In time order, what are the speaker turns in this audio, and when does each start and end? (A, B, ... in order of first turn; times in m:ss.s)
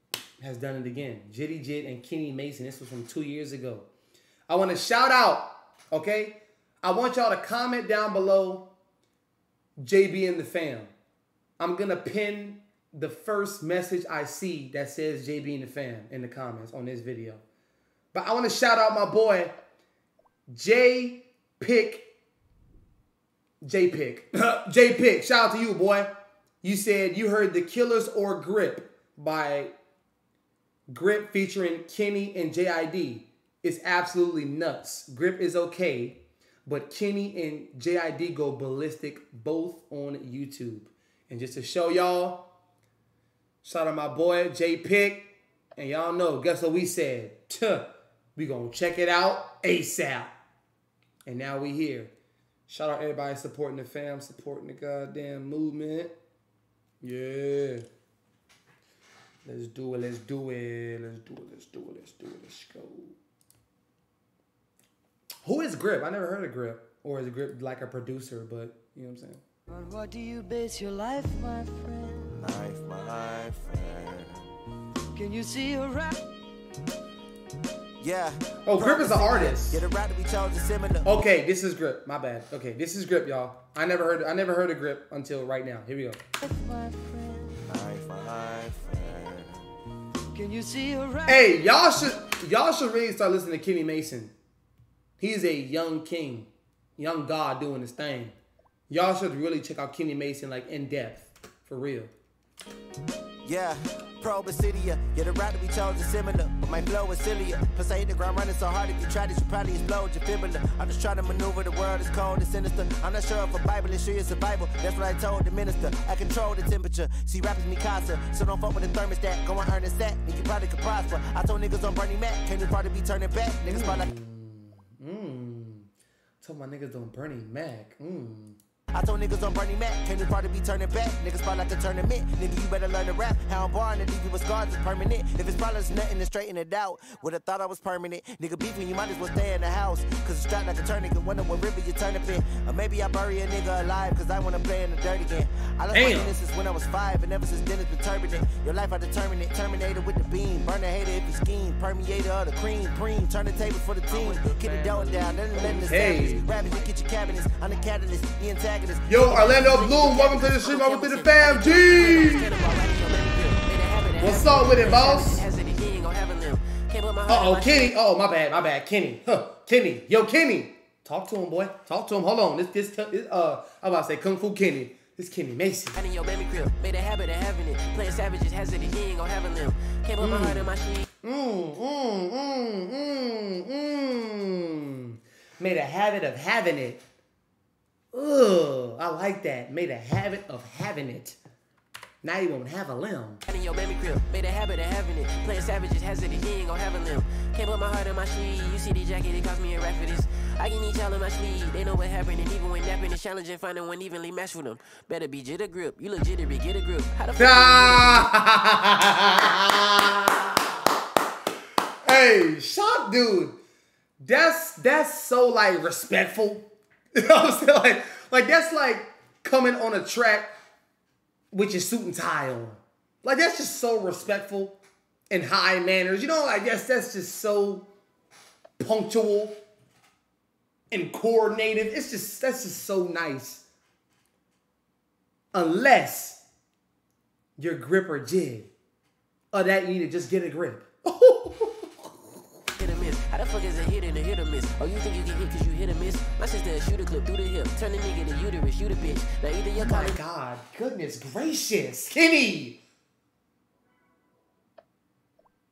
0:00.4-0:03.9 A
0:04.5-0:08.7 A
0:09.8-0:10.9 A
0:11.6-0:17.4 A
0:18.1-0:19.5 A
0:20.5-0:22.1 A
0:23.6-0:26.1 A
0:26.6-0:29.7 A
0:30.9-0:42.5 A
0:43.6-0:50.3 A
0:51.3-0:52.1 A
0:52.7-0:56.1 A
0:57.0-0:57.8 A
0:59.4-1:03.2 A
1:05.4-1:09.4 A
1:09.7-1:12.4 B
1:12.4-1:14.5 C
1:15.1-1:16.2 B
1:18.0-1:21.1 C
1:18.7-1:19.9 A
1:21.0-1:26.2 A
1:26.4-1:27.6 B
1:27.7-1:29.7 C
1:30.3-1:31.5 B
1:31.3-1:34.3 A
1:35.2-1:38.4 A
1:38.9-1:42.1 A
1:43.4-2:04.1 C
2:03.6-2:05.9 A
2:06.4-2:08.6 A
2:08.9-2:39.2 C
2:25.9-2:26.4 A
2:34.1-2:37.4 D
2:35.8-2:36.4 A
2:39.1-2:42.5 A
2:39.2-2:47.9 D
2:44.2-2:45.5 A
2:47.3-2:56.0 A
2:55.9-3:01.1 D
3:00.2-3:07.0 A
3:08.1-3:11.4 A
3:12.2-3:13.4 A
3:13.5-3:28.3 D
3:27.4-3:30.8 A
3:32.0-3:33.6 A
3:34.2-3:40.5 A
3:41.5-3:44.8 A
3:45.3-3:47.9 A
3:48.8-3:49.6 A
3:50.9-3:53.6 A
3:55.5-3:56.4 A
3:57.6-3:58.7 A
3:59.5-4:02.3 A
4:02.7-4:10.2 D
4:09.8-4:12.8 A